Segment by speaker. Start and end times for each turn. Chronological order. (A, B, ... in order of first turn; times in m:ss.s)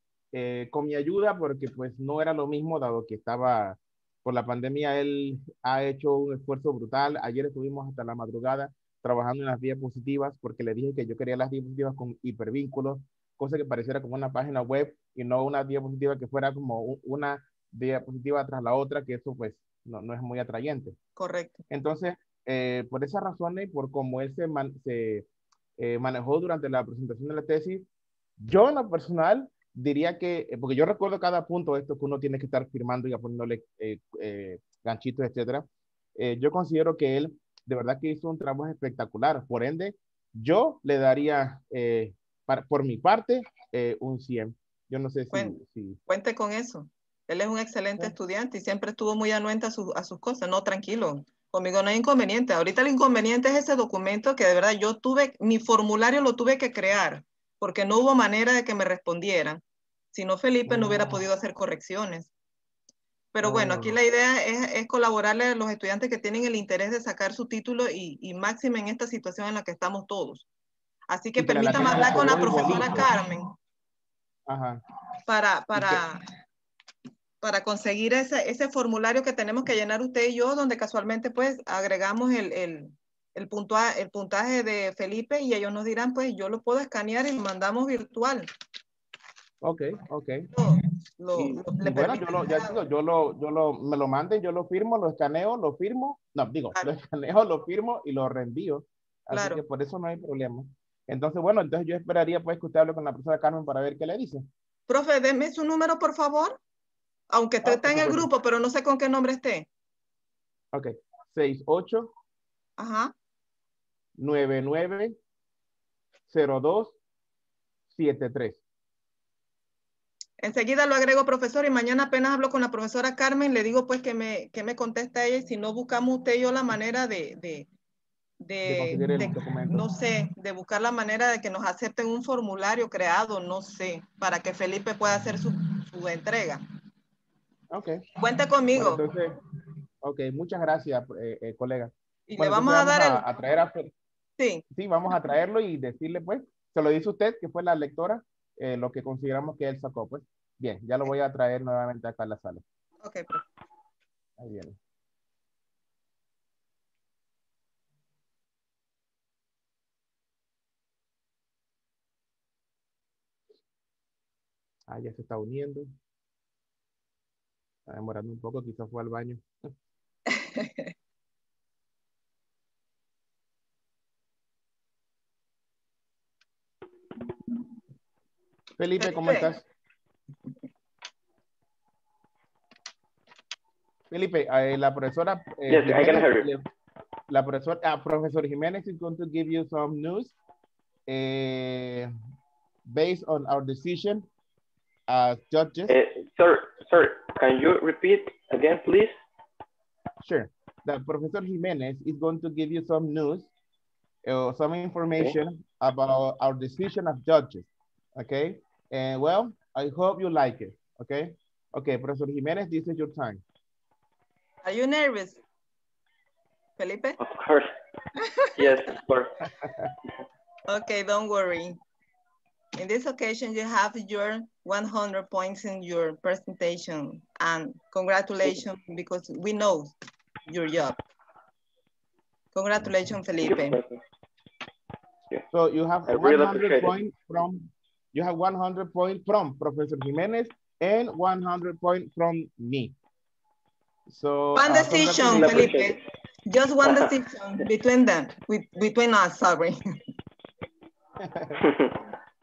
0:00.3-0:20.9 A
0:21.2-0:21.6 B
0:21.7-0:25.2 A
0:25.8-0:27.8 A
0:28.4-0:46.0 A
0:46.1-0:59.6 B
1:00.1-1:02.3 B
1:00.7-1:01.2 A
1:03.3-1:10.4 B
1:03.4-1:04.0 A
1:11.1-1:13.5 B
1:11.4-1:13.1 A
1:14.5-1:14.8 A
1:15.3-1:16.2 B
1:15.7-1:16.0 A
1:17.4-1:28.5 B
1:29.6-1:30.5 A
1:30.5-1:32.8 B
1:31.3-1:44.4 A
1:39.3-1:39.6 B
1:44.9-1:46.6 B
1:47.3-1:49.7 B
1:47.6-1:48.3 A
1:50.7-1:52.1 A
1:52.8-1:53.1 B
1:54.2-1:55.2 A
1:56.3-1:57.0 A
1:57.9-1:58.6 A
2:00.4-2:07.7 B
2:08.4-2:16.6 B
2:08.6-2:09.8 A
2:17.7-2:18.0 A
2:18.2-2:19.0 B
2:18.7-2:19.4 A
2:20.0-2:23.9 A
2:22.3-2:23.2 B
2:24.4-2:24.6 B
2:24.7-2:32.6 A
2:33.0-2:33.4 B
2:34.4-2:34.8 A
2:44.9-2:45.9 A
2:47.9-2:49.7 A
2:50.3-2:50.9 B
2:58.8-2:59.6 A
2:59.0-2:59.5 B
3:04.1-3:06.6 A
3:05.7-3:06.5 C
3:07.3-3:10.4 A
3:11.1-3:12.1 A
3:12.9-3:14.3 A
3:15.1-3:15.9 A
3:15.9-3:19.1 C
3:20.2-3:23.5 A
3:24.2-3:33.4 A
3:34.6-3:35.4 B
3:36.8-3:37.2 B
3:37.2-3:37.7 C
3:38.2-3:38.5 B
3:38.6-3:39.4 C
3:39.6-3:39.9 A
3:40.7-3:41.8 B
3:42.8-3:49.9 B
3:50.5-3:51.0 B
3:52.5-3:53.8 B
3:52.8-3:53.1 A
3:53.4-3:54.0 C
3:55.5-4:02.9 A
3:56.1-3:56.9 C
4:04.1-4:05.8 A
4:04.5-4:09.8 B
4:05.2-4:06.0 C
4:06.8-4:07.1 C
4:11.2-4:11.6 A
4:11.6-4:12.0 C